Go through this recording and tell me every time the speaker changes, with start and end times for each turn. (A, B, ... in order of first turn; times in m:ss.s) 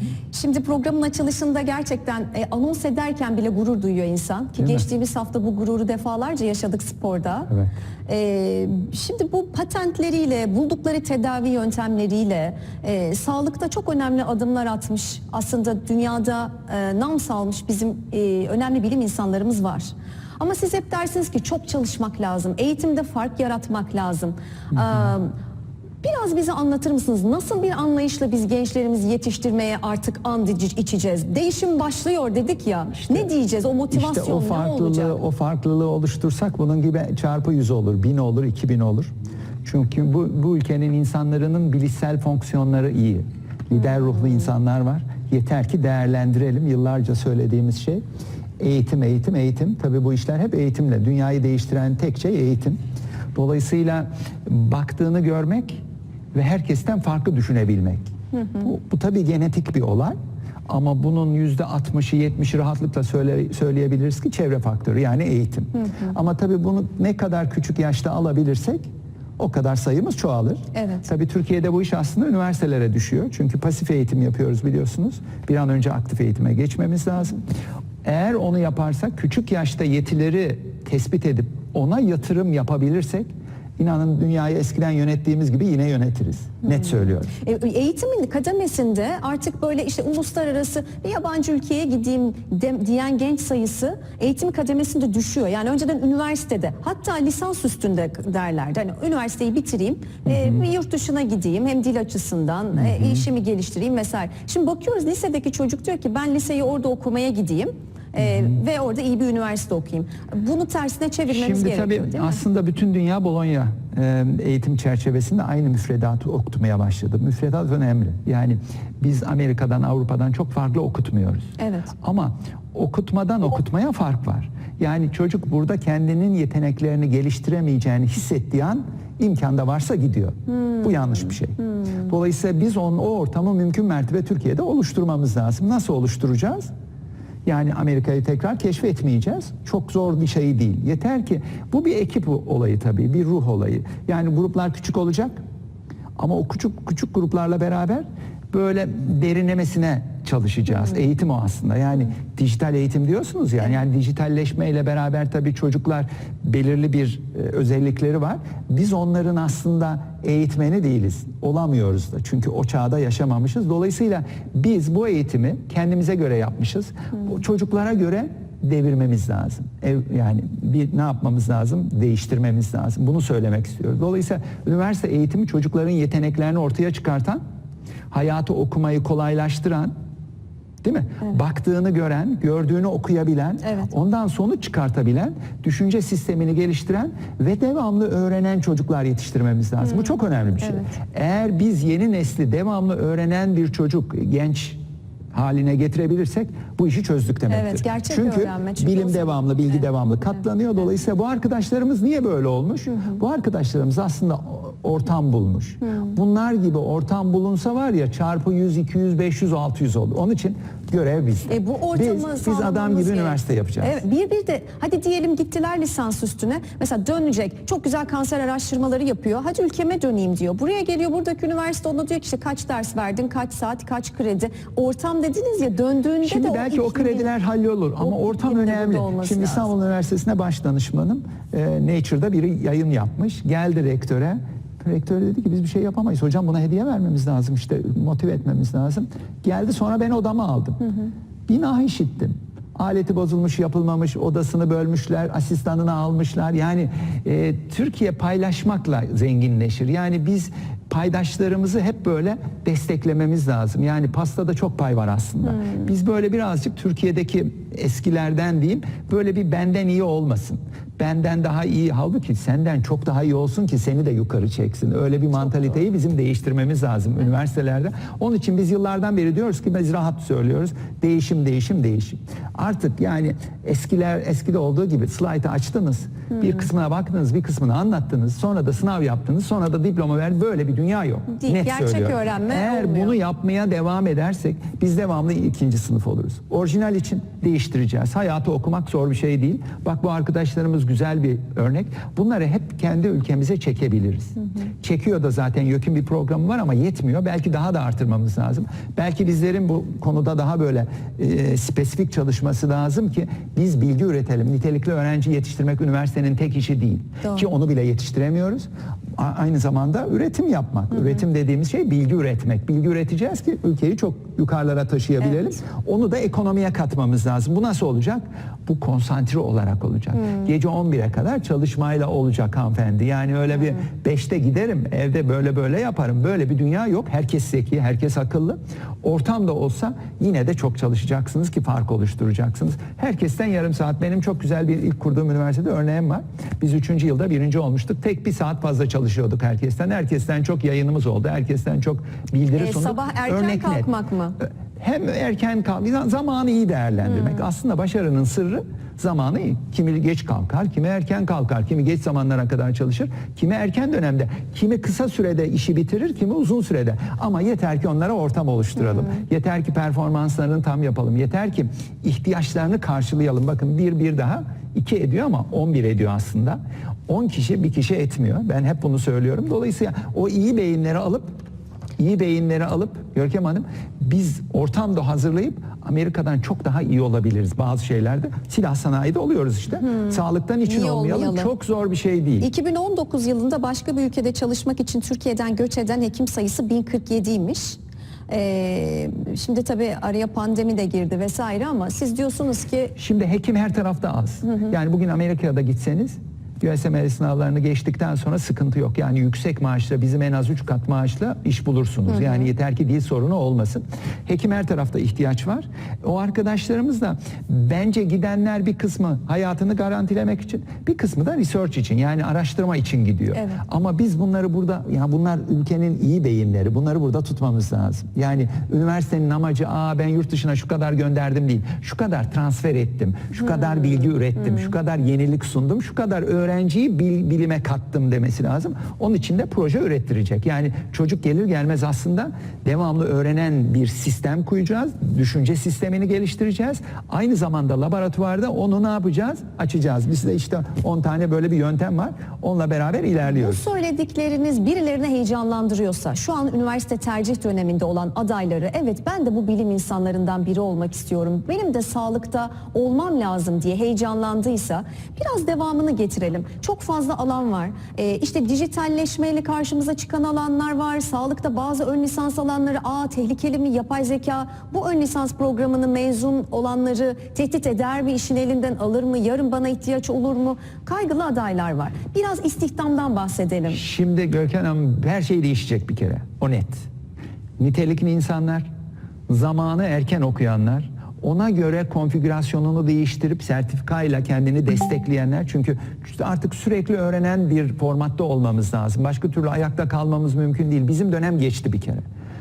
0:00.3-0:07.5 A
0:04.6-0:04.8 B
0:08.1-0:25.3 A
0:26.0-0:35.2 A
0:33.0-0:33.3 B
0:33.9-0:39.1 B
0:39.6-0:48.0 B
0:48.6-0:52.8 B
0:53.3-0:55.8 B
0:56.3-0:58.0 B
0:58.6-1:00.2 B
1:00.7-1:08.9 B
1:09.4-1:17.4 B
1:10.7-1:11.0 A
1:18.0-1:27.3 B
1:27.3-1:52.4 A
1:40.2-1:40.6 B
1:42.8-1:43.2 B
1:48.2-1:48.6 B
1:51.3-2:16.7 B
2:01.6-2:01.9 A
2:17.4-2:25.4 B
2:26.2-2:57.4 B
2:58.1-2:59.9 B
3:00.8-3:14.8 B
3:03.6-3:03.9 A
3:10.6-3:10.9 A
3:15.3-3:34.0 B
3:17.5-3:19.8 A
3:25.8-3:26.1 A
3:31.5-3:47.3 A
3:46.2-4:00.8 B
3:48.0-3:49.7 A
4:01.5-5:43.9 B
4:41.3-4:43.2 A
5:42.5-5:44.4 A
5:44.4-6:11.4 B
6:12.0-6:22.5 B
6:19.8-6:21.5 A
6:22.4-6:27.8 A
6:28.3-6:32.9 A
6:33.0-7:23.6 B
6:42.1-6:42.5 A
6:53.3-6:53.6 A
7:23.2-7:53.8 A
7:53.7-7:56.8 B
7:57.6-7:58.7 B
7:59.3-8:12.0 B